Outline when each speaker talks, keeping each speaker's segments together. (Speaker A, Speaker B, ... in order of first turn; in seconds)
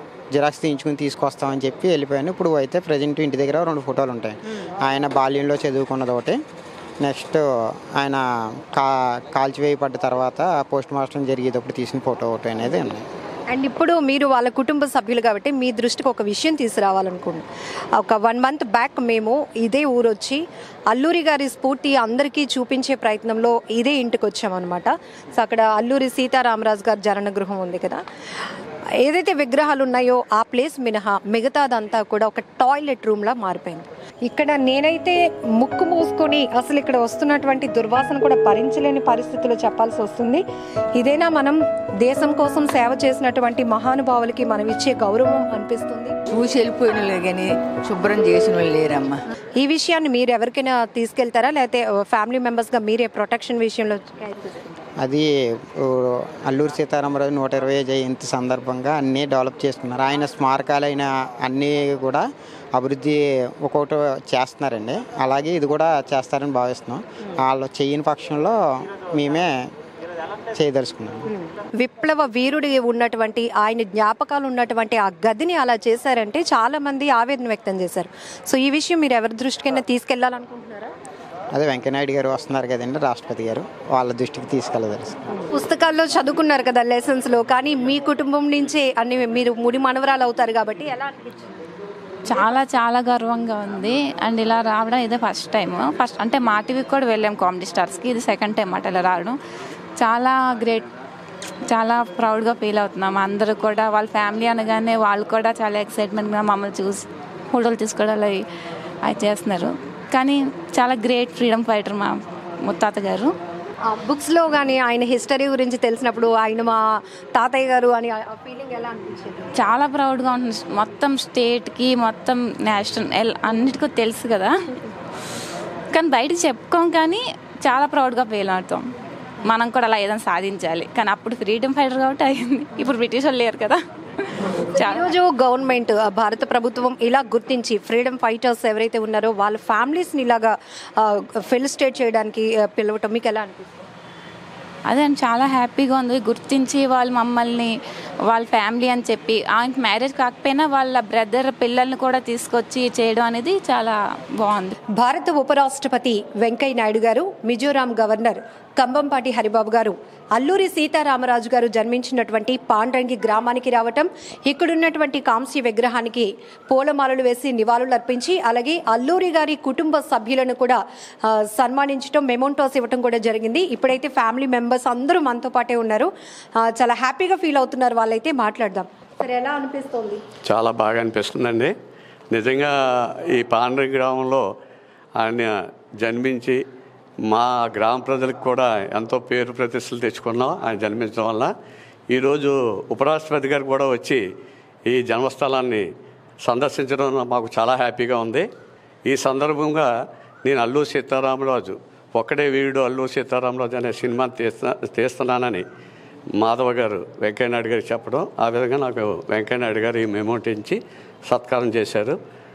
Speaker A: 0.3-6.4, 7.0-13.1, 55.0-69.7, 70.5-71.3, 81.5-85.2
Speaker B: 13.5-28.0, 29.0-40.4, 41.0-46.2, 49.6-54.8, 71.3-80.9, 85.5-91.6, 113.9-119.5, 134.8-143.7, 155.0-176.1, 176.6-180.2
Speaker C: 46.3-49.1
Speaker D: 92.3-99.4, 100.0-100.9, 101.7-108.4, 109.0-113.3, 119.6-124.8, 125.9-128.8, 129.4-135.1, 144.9-147.7, 148.3-154.8
Speaker E: 180.5-181.7, 182.3-184.4, 185.2-186.6, 187.3-191.5, 192.1-194.2, 194.9-195.9, 196.4-198.5, 199.1-199.9, 200.4-205.6, 206.4-212.2